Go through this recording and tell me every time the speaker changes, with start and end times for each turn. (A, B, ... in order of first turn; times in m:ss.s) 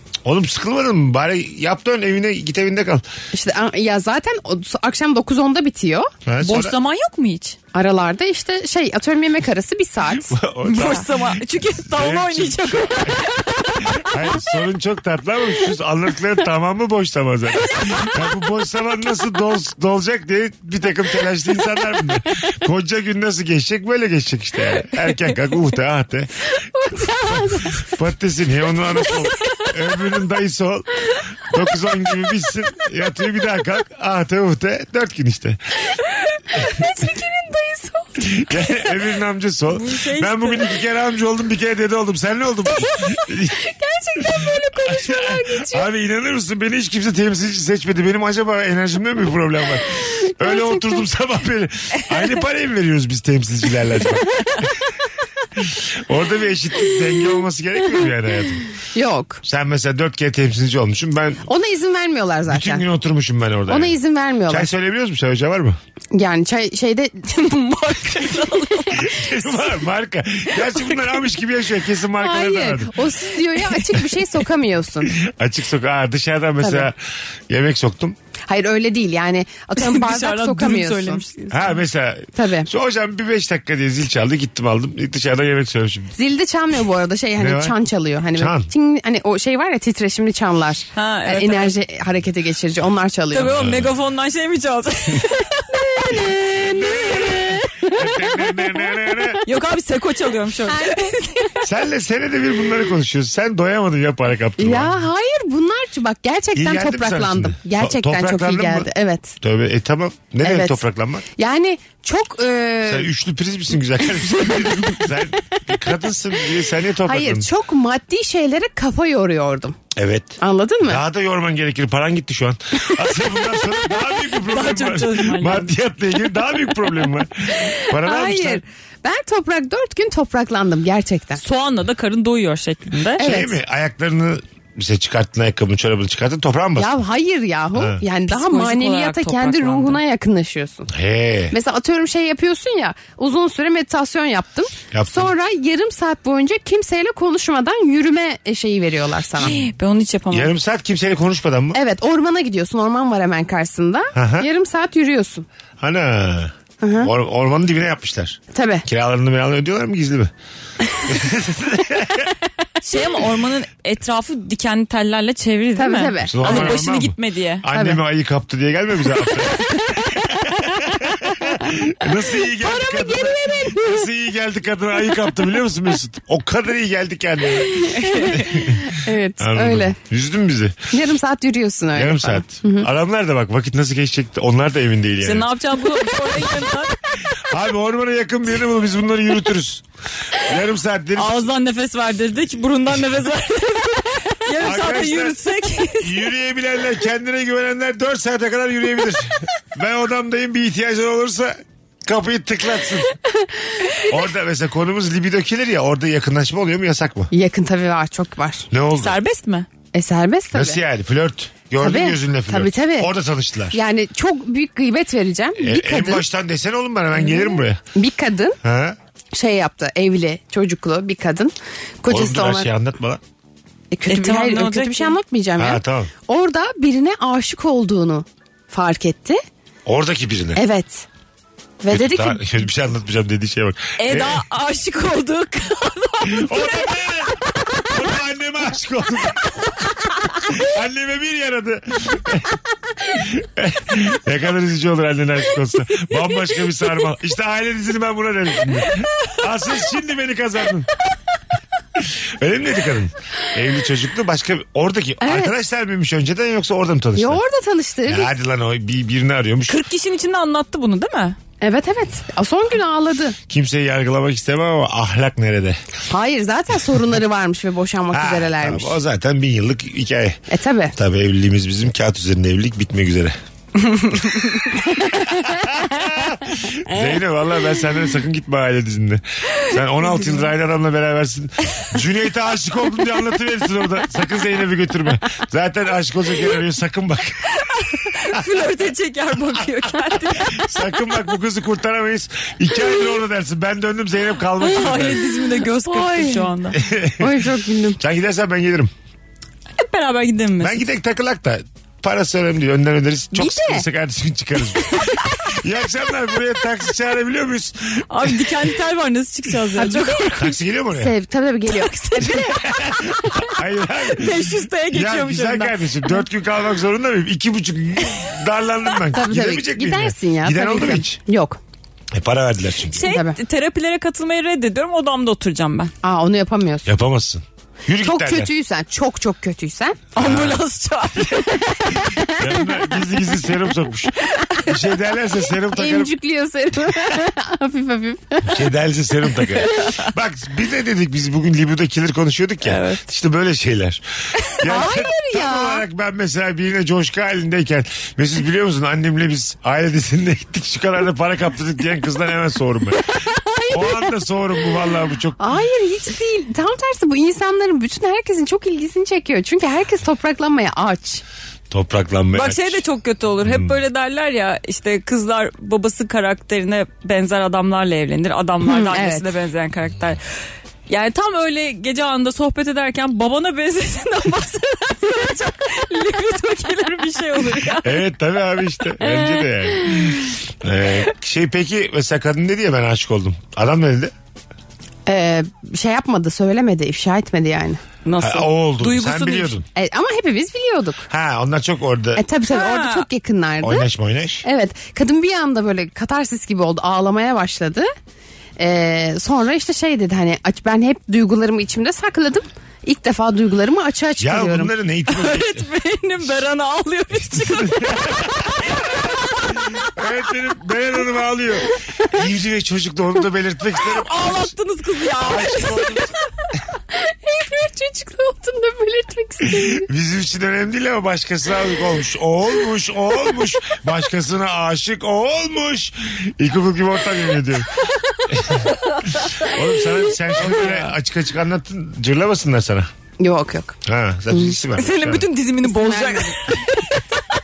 0:00.2-0:03.0 A
0:03.3-0:06.1 B
0:06.2-0:06.7 A
0:06.4-0:07.6 C
0:07.7-0:10.8 B
0:10.1-0:13.3 A
0:10.6-0:14.0 C
0:13.8-0:26.5 A
0:26.8-0:27.7 B
0:27.3-0:35.8 A
0:36.1-0:38.3 C
0:38.2-0:43.6 A
0:39.7-0:40.7 C
0:43.8-0:45.6 C
0:44.2-0:54.7 A
0:44.2-0:45.8 B
0:50.5-0:50.8 B
0:55.6-0:58.7 A
0:58.9-0:59.4 B
0:59.4-1:01.4 A
1:01.5-1:02.8 B
1:02.5-1:05.8 A
1:03.7-1:04.7 B
1:06.1-1:07.6 B
1:07.3-1:09.3 C
1:08.9-1:13.0 A
1:12.2-1:15.1 B
1:15.0-1:17.0 A
1:16.6-1:16.9 B
1:17.5-1:18.2 A
1:18.5-1:21.2 B
1:19.8-1:21.8 C
1:21.5-1:26.1 A
1:22.3-1:22.7 B
1:26.2-1:33.5 B
1:27.4-1:27.8 A
1:28.3-1:28.7 A
1:30.9-1:31.7 C
1:33.3-1:37.5 C
1:33.4-1:33.9 A
1:35.7-1:38.1 B
1:36.5-1:39.4 A
1:39.4-1:41.6 C
1:40.7-1:41.6 B
1:41.6-1:45.0 A
1:44.6-1:49.3 B
1:46.5-1:48.9 A
1:49.4-1:51.2 A
1:50.4-1:50.8 B
1:51.4-1:53.1 B
1:52.8-1:57.5 A
1:54.4-1:54.9 B
1:57.0-1:59.8 B
1:59.9-2:08.6 A
2:00.4-2:01.0 B
2:04.3-2:05.7 C
2:07.7-2:11.4 B
2:11.4-2:13.2 C
2:13.2-2:13.6 B
2:13.2-2:17.0 A
2:16.8-2:20.9 B
2:17.7-2:18.0 A
2:18.3-2:20.0 C
2:20.9-2:21.5 A
2:21.5-2:29.6 B
2:24.9-2:25.3 A
2:29.4-2:30.5 C
2:30.3-2:31.8 A
2:31.7-2:35.4 B
2:34.1-2:34.5 A
2:35.8-2:40.3 A
2:36.8-2:37.1 B
2:38.5-2:38.8 B
2:41.0-2:42.3 A
2:42.8-2:47.6 C
2:45.8-2:46.8 B
2:46.2-2:58.9 A
2:47.7-2:48.0 B
2:52.7-2:54.0 B
2:57.7-3:00.0 B
2:58.0-2:58.4 C
2:59.4-3:00.9 A
3:00.9-3:02.9 B
3:01.9-3:05.5 A
3:05.2-3:07.0 C
3:07.5-3:11.5 A
3:11.2-3:16.2 C
3:14.6-3:15.4 A
3:16.0-3:23.1 A
3:23.4-3:24.0 B
3:24.0-3:27.3 A
3:27.3-3:28.7 B
3:28.7-3:29.2 A
3:29.0-3:29.7 C
3:29.9-3:30.8 B
3:30.5-3:33.8 A
3:31.8-3:33.1 B
3:33.7-3:36.2 B
3:35.6-3:37.8 A
3:37.9-3:38.6 B
3:38.6-3:39.0 A
3:39.3-3:42.7 B
3:42.1-3:43.2 A
3:43.9-3:49.4 B
3:44.1-3:45.2 C
3:45.6-3:46.1 A
3:49.8-3:50.6 A
3:50.6-3:51.0 B
3:51.8-3:52.4 B
3:51.9-3:54.4 A
3:54.0-3:56.9 C
3:56.2-3:59.6 A
4:00.4-4:10.9 A
4:12.0-4:17.4 A
4:15.2-4:15.5 B
4:17.2-4:18.3 B
4:18.1-4:19.8 A
4:19.7-4:21.4 C
4:21.6-4:23.4 B
4:23.5-4:25.8 A
4:26.1-4:29.0 B
4:28.1-4:30.4 A
4:30.5-4:30.9 B
4:30.9-4:33.4 A
4:34.6-4:35.7 B
4:35.2-4:47.5 A
4:47.6-4:51.2 C
4:48.1-4:48.5 A
4:50.1-4:55.3 A
4:54.6-4:56.8 C
4:55.8-4:56.5 B
4:56.7-4:57.4 A
4:57.2-4:58.0 B
4:58.0-4:58.9 A
4:59.8-5:00.9 C
5:00.6-5:08.6 A
5:03.3-5:03.8 B
5:08.1-5:10.6 C
5:09.8-5:10.3 B
5:10.3-5:11.1 A
5:10.9-5:12.4 B
5:11.7-5:13.5 C
5:12.2-5:21.2 A
5:14.1-5:16.1 C
5:19.1-5:21.6 B
5:22.1-5:23.1 A
5:22.9-5:25.9 C
5:23.0-5:23.4 B
5:26.0-5:26.9 B
5:26.8-5:28.5 A
5:28.0-5:30.0 B
5:30.1-5:32.0 C
5:30.2-5:30.6 A
5:32.3-5:36.1 A
5:35.7-5:38.6 B
5:38.4-5:44.0 A
5:42.6-5:43.0 C
5:44.6-5:53.0 A
5:44.6-5:45.8 B
5:53.2-5:54.2 B
5:53.7-5:55.6 A
5:55.4-6:01.2 B
6:01.7-6:02.8 A
6:02.3-6:10.2 C
6:03.4-6:03.7 A
6:08.6-6:09.3 B
6:10.9-6:18.0 C
6:17.8-6:24.1 A
6:25.0-6:27.8 B
6:28.0-6:29.5 C
6:28.2-6:29.6 A
6:29.7-6:31.0 B
6:31.1-6:32.2 A
6:32.2-6:33.9 B
6:32.5-6:33.1 C
6:33.6-6:34.4 A
6:34.4-6:37.9 B
6:38.6-6:44.7 B
6:44.2-6:45.6 A
6:45.1-6:49.5 C
6:47.3-6:54.5 A
6:53.8-6:56.2 C
6:55.2-6:56.2 A
6:56.9-6:59.8 B
6:59.4-7:07.7 A
7:08.3-7:08.7 A
7:08.6-7:09.5 C
7:09.2-7:12.9 A
7:10.4-7:10.8 C
7:13.2-7:13.8 B
7:13.8-7:15.3 A
7:14.7-7:17.2 C
7:15.6-7:16.6 B